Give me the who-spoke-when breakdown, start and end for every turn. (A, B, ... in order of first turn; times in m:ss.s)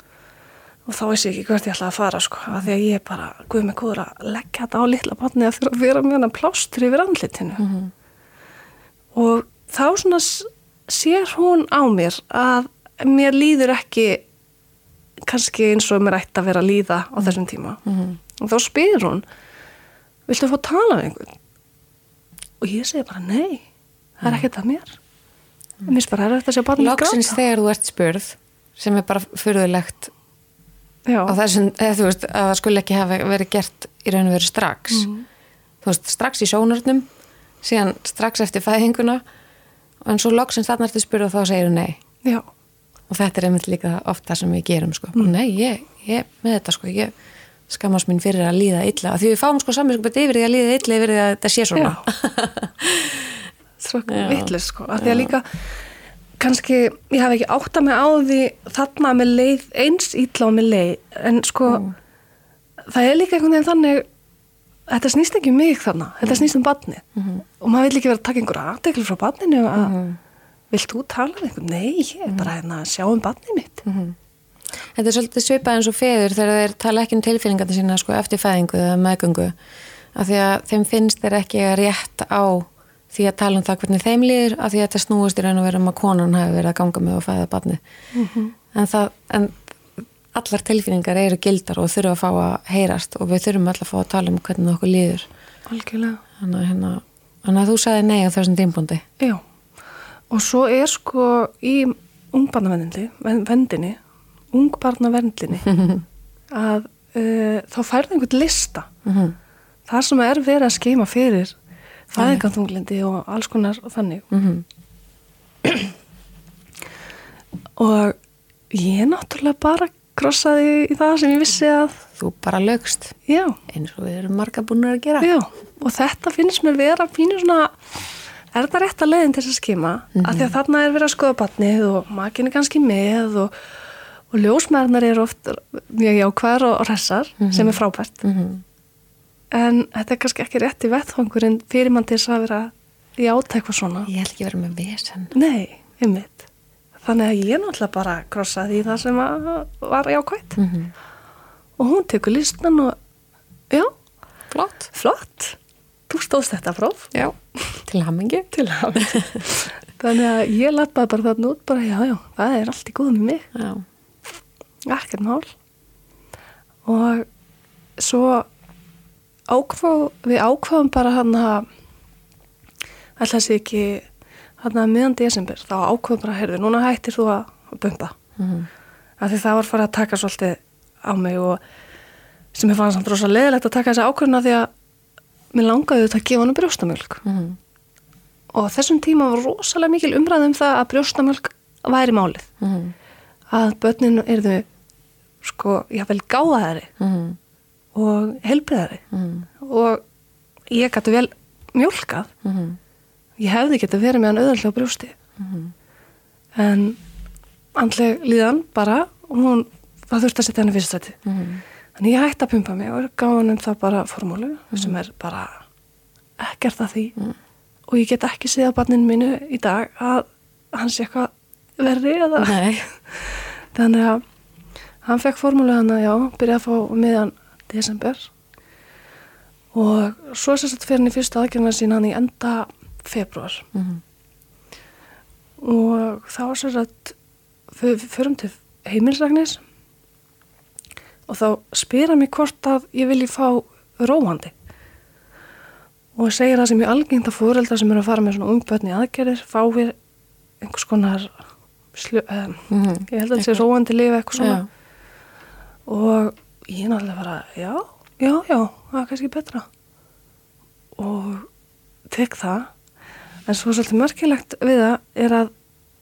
0:00.8-0:07.6 A
0:07.6-0:07.9 B
0:09.1-0:14.2 A
0:15.3-0:17.8 A
0:17.8-0:18.2 B
0:18.4-0:19.2 A
0:20.3-0:21.4 A
0:22.6-0:23.6 A
0:24.2-0:25.0 A
0:25.8-0:27.4 A
0:26.8-0:30.1 B
0:31.0-0:31.4 A
0:31.3-0:35.1 B
0:34.9-0:35.2 A
0:35.8-0:37.0 B
0:37.6-0:39.2 B
0:40.0-0:42.0 B
0:43.1-0:47.1 B
0:47.7-0:53.5 B
0:51.7-0:52.0 A
0:53.8-0:55.5 A
0:54.1-0:55.3 B
0:56.4-1:01.8 A
1:01.7-1:01.9 B
1:02.9-1:04.0 A
1:04.9-1:10.0 A
1:07.2-1:07.4 B
1:09.8-1:10.2 B
1:10.7-1:13.8 A
1:13.8-1:14.2 B
1:14.9-1:19.5 B
1:20.1-1:27.8 B
1:28.1-1:28.5 A
1:28.7-1:29.6 B
1:30.3-1:35.3 B
1:35.7-1:36.2 A
1:36.4-1:39.0 B
1:40.3-1:44.0 A
1:44.5-1:45.8 A
1:45.7-1:46.0 B
1:46.5-1:48.9 A
1:49.0-1:49.4 B
1:49.9-1:51.6 A
1:52.1-1:54.3 A
1:52.2-1:52.4 B
1:54.3-1:54.6 B
1:57.8-1:58.2 A
1:58.7-2:02.0 A
2:02.2-2:03.2 B
2:03.2-2:03.6 A
2:03.7-2:05.3 B
2:05.2-2:07.8 A
2:08.5-2:13.5 A
2:10.2-2:10.5 B
2:14.3-2:18.2 A
2:17.4-2:18.6 B
2:19.5-2:24.1 A
2:24.1-2:25.3 B
2:25.3-2:26.5 A
2:27.0-2:30.6 A
2:30.6-2:30.9 B
2:31.8-2:33.0 A
2:34.5-2:34.9 B
2:34.9-2:35.6 A
2:36.1-2:37.1 A
2:37.1-2:39.4 B
2:38.5-2:43.5 A
2:43.5-2:43.8 B
2:44.8-2:45.5 A
2:46.8-2:47.2 A
2:48.0-2:48.5 A
2:49.5-2:51.7 A
2:53.2-2:54.1 A
2:54.6-2:58.1 A
2:58.4-2:58.7 B
2:59.2-3:01.6 A
3:02.5-3:04.7 A
3:05.5-3:07.2 A
3:07.2-3:07.6 B
3:08.5-3:12.5 A
3:12.6-3:12.9 B
3:13.5-3:14.6 A
3:15.4-3:16.9 A
3:17.0-3:17.4 B
3:17.9-3:19.0 A
3:19.1-3:19.5 B
3:19.6-3:20.0 A
3:20.7-3:22.3 A
3:22.4-3:22.8 B
3:23.4-3:25.2 A
3:25.4-3:25.7 B
3:26.6-3:27.0 A
3:27.8-3:31.2 A
3:31.2-3:31.6 B
3:32.0-3:35.6 A
3:36.4-3:37.2 A
3:37.9-3:42.6 A
3:42.4-3:42.8 B
3:43.2-3:44.2 A
3:45.0-3:48.3 A
3:49.7-3:53.7 A
3:53.7-3:54.0 B
3:55.6-3:57.2 A
3:57.7-3:59.6 A
4:01.3-4:04.5 A
4:06.2-4:10.0 A
4:10.6-4:11.4 A
4:11.9-4:14.6 A
4:12.7-4:13.6 B
4:14.4-4:14.7 B
4:15.9-4:19.7 A
4:21.0-4:21.5 A
4:22.1-4:22.7 A
4:23.5-4:25.5 A